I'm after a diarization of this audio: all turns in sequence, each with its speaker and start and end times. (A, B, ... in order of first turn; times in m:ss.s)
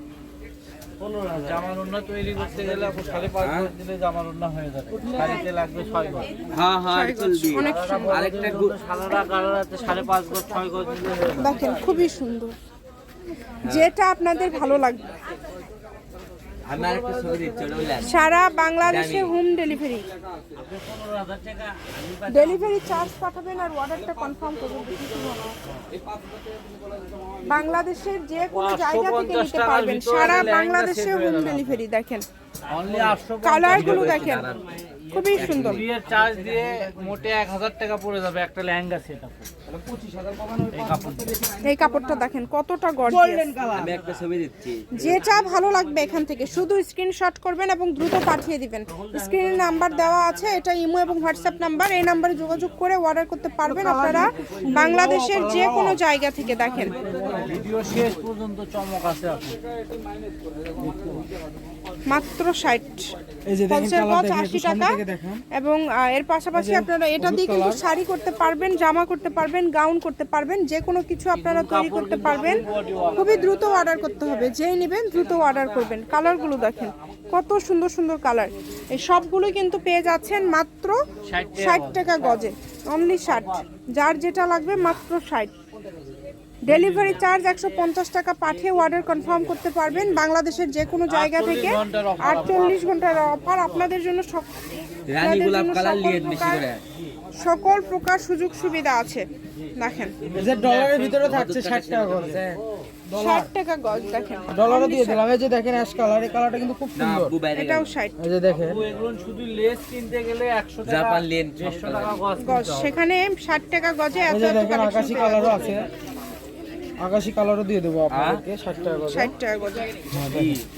0:01.0-0:06.4 A
0:03.4-0:03.7 B
0:06.5-0:08.8 B
0:06.9-0:08.2 C
0:07.6-0:11.8 A
0:11.4-0:12.5 C
0:13.6-0:13.9 B
0:13.6-0:15.2 C
0:16.6-0:18.2 B
0:18.0-0:20.1 C
0:18.8-0:19.3 B
0:20.6-0:23.0 A
0:22.3-0:25.6 C
0:27.5-0:32.2 C
0:28.5-0:31.8 A
0:32.7-0:34.3 A
0:33.4-0:34.5 C
0:33.7-0:34.8 B
0:35.1-0:35.8 C
0:35.4-0:35.8 B
0:35.4-0:39.5 A
0:39.7-0:42.0 D
0:40.7-0:41.2 A
0:41.6-0:43.5 C
0:43.0-0:43.9 D
0:43.7-0:44.8 B
0:44.9-0:57.0 C
0:53.6-0:56.0 D
0:56.7-0:57.6 D
0:57.2-0:59.6 A
1:02.1-1:03.1 C
1:03.5-1:05.4 D
1:03.7-1:05.0 C
1:05.5-1:12.6 C
1:06.5-1:07.8 D
1:11.4-1:13.5 A
1:13.2-1:21.0 C
1:21.3-1:22.4 A
1:21.6-1:25.5 C
1:26.7-1:34.5 C
1:26.7-1:27.0 A
1:31.1-1:32.8 A
1:35.1-1:36.8 B
1:35.2-1:36.7 C
1:37.4-1:40.2 C
1:40.2-1:41.1 A
1:40.4-1:42.4 D
1:41.1-1:42.6 B
1:43.1-1:43.5 D
1:43.2-1:45.2 C
1:44.5-1:47.4 D
1:47.0-1:47.9 B
1:47.5-1:48.1 C
1:48.2-1:48.8 D
1:48.6-1:53.0 A
1:50.8-1:52.2 B
1:52.4-1:55.9 C
1:54.3-1:55.9 D
1:57.0-1:59.3 D
1:58.1-1:58.4 B
1:59.1-1:59.9 C
2:00.1-2:00.6 D
2:00.3-2:00.6 B